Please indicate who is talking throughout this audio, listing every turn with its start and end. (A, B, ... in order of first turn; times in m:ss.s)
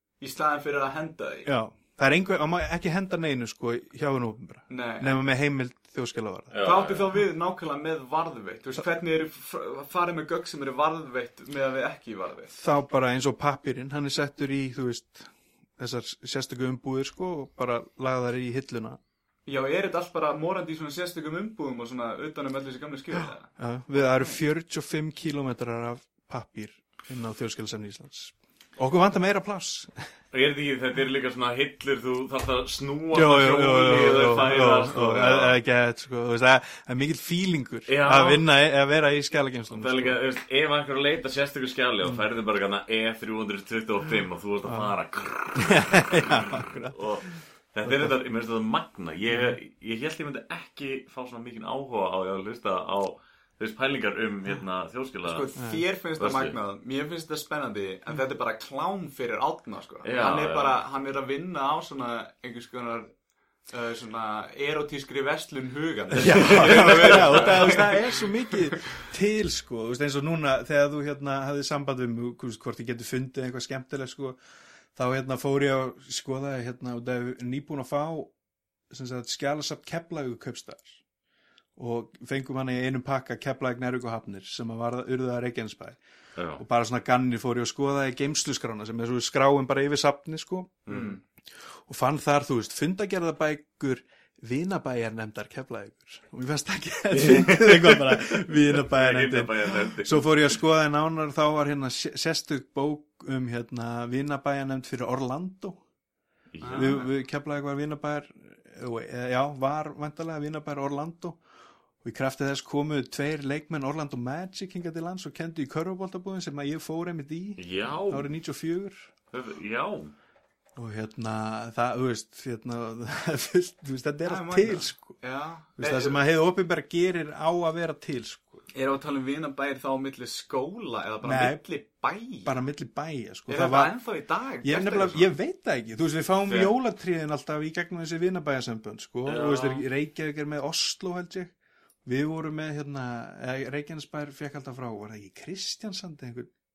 0:00.2-0:01.5 A
0:01.4-0:06.5 B
0:04.7-0:05.2 A
0:06.5-0:07.1 C
0:06.6-0:12.5 A
0:12.5-0:19.0 B
0:19.4-0:23.5 A
0:23.6-0:29.9 B
0:24.0-0:24.4 A
0:30.3-0:35.6 C
0:33.1-0:40.2 B
0:37.9-0:38.4 C
0:39.7-0:55.4 C
0:44.6-0:45.0 B
0:45.5-0:48.1 B
0:49.3-0:49.6 B
0:55.2-1:03.1 A
0:55.6-0:55.8 B
0:56.2-0:56.6 C
1:00.0-1:00.8 C
1:03.7-1:08.0 A
1:06.2-1:14.4 B
1:06.3-1:07.7 C
1:14.9-1:18.3 B
1:18.9-1:21.0 B
1:21.8-1:26.0 B
1:26.4-1:26.6 C
1:26.6-1:31.1 B
1:30.9-1:31.2 A
1:31.9-1:45.8 B
1:37.1-1:40.6 C
1:46.5-1:47.0 C
1:46.6-1:47.1 A
1:46.7-1:51.4 B
1:52.0-1:59.1 B
1:57.6-1:58.3 C
1:59.3-2:00.1 C
2:00.8-2:05.2 B
2:04.2-2:06.2 A
2:05.8-2:08.6 B
2:08.7-2:12.5 A
2:11.2-2:11.6 B
2:12.4-2:13.9 B
2:13.5-2:15.3 A
2:14.6-2:21.5 B
2:16.4-2:16.7 C
2:19.2-2:19.9 C
2:22.0-2:26.5 B